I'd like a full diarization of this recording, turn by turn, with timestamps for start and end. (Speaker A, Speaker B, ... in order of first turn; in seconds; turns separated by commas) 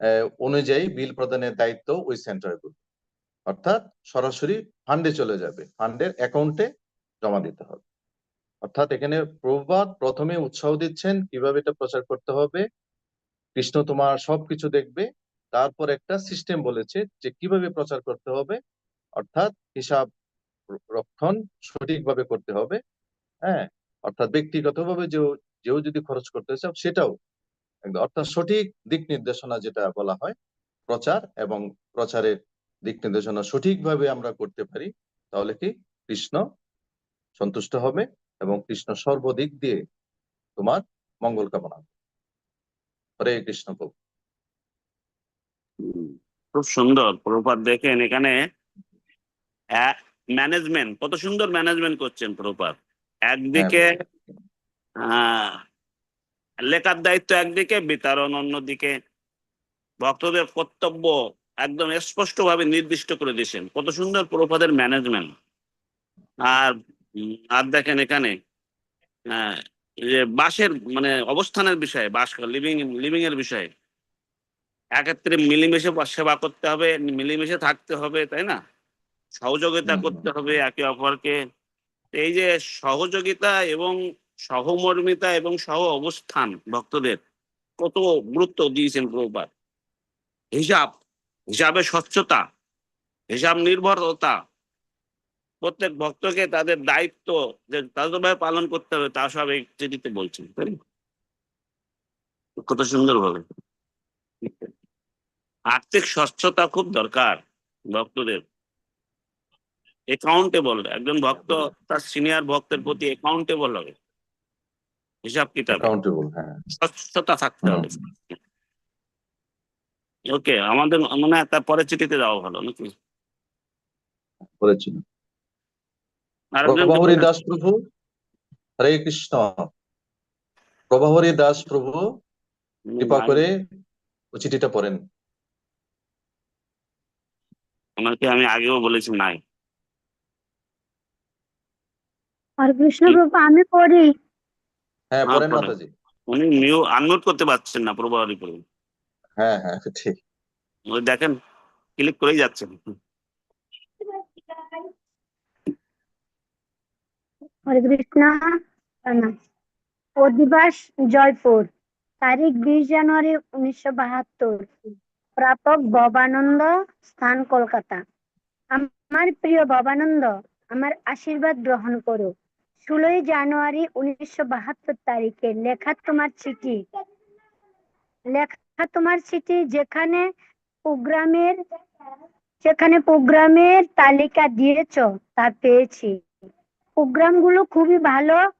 Speaker A: 0.4-2.8, Speaker A: 3.5-6.7, Speaker A: 7.2-7.8, Speaker A: 8.6-12.7, Speaker A: 13.6-18.6, Speaker A: 19.2-20.1, Speaker A: 20.9-22.8, Speaker A: 23.5-27.1, Speaker A: 27.9-30.4, Speaker A: 30.9-32.4, Speaker A: 32.9-36.4, Speaker A: 37.4-39.8, Speaker A: 40.6-41.9, Speaker A: 43.2-43.9, Speaker B: 45.8-48.4, Speaker B: 49.8-52.8, Speaker B: 53.3-53.9, Speaker A: 53.5-53.9, Speaker B: 55.0-55.6, Speaker B: 56.7-58.9, Speaker B: 60.0-65.3, Speaker B: 66.5-68.3, Speaker B: 69.3-69.6, Speaker B: 70.1-73.7, Speaker B: 75.0-78.6, Speaker B: 79.4-81.3, Speaker A: 79.9-80.3, Speaker B: 82.2-84.0, Speaker B: 84.5-87.2, Speaker B: 87.8-89.5, Speaker B: 90.5-91.0, Speaker B: 91.5-92.4, Speaker B: 93.3-94.4, Speaker B: 95.6-100.8, Speaker B: 102.6-103.4, Speaker B: 104.4-104.7, Speaker B: 105.8-107.4, Speaker B: 107.9-108.4, Speaker B: 110.1-113.9, Speaker B: 115.3-115.9, Speaker A: 115.7-116.6, Speaker B: 116.8-118.0, Speaker A: 117.6-117.9, Speaker B: 120.3-122.9, Speaker A: 124.6-125.0, Speaker B: 126.6-127.3, Speaker A: 126.7-127.8, Speaker A: 128.8-129.7, Speaker A: 130.9-132.0, Speaker B: 132.9-133.4, Speaker A: 133.0-133.5, Speaker A: 134.3-135.0, Speaker B: 138.0-139.4, Speaker C: 142.6-144.1, Speaker A: 145.1-145.9, Speaker B: 145.3-145.7, Speaker B: 146.3-148.6, Speaker A: 149.4-150.2, Speaker B: 150.9-151.3, Speaker B: 152.0-152.9, Speaker C: 157.7-158.4, Speaker C: 159.1-159.3, Speaker C: 160.2-161.7, Speaker C: 162.2-164.7, Speaker C: 165.4-168.0, Speaker C: 168.7-176.8, Speaker C: 178.3-180.3, Speaker C: 180.9-181.6, Speaker C: 182.6-186.2, Speaker C: 187.0-188.4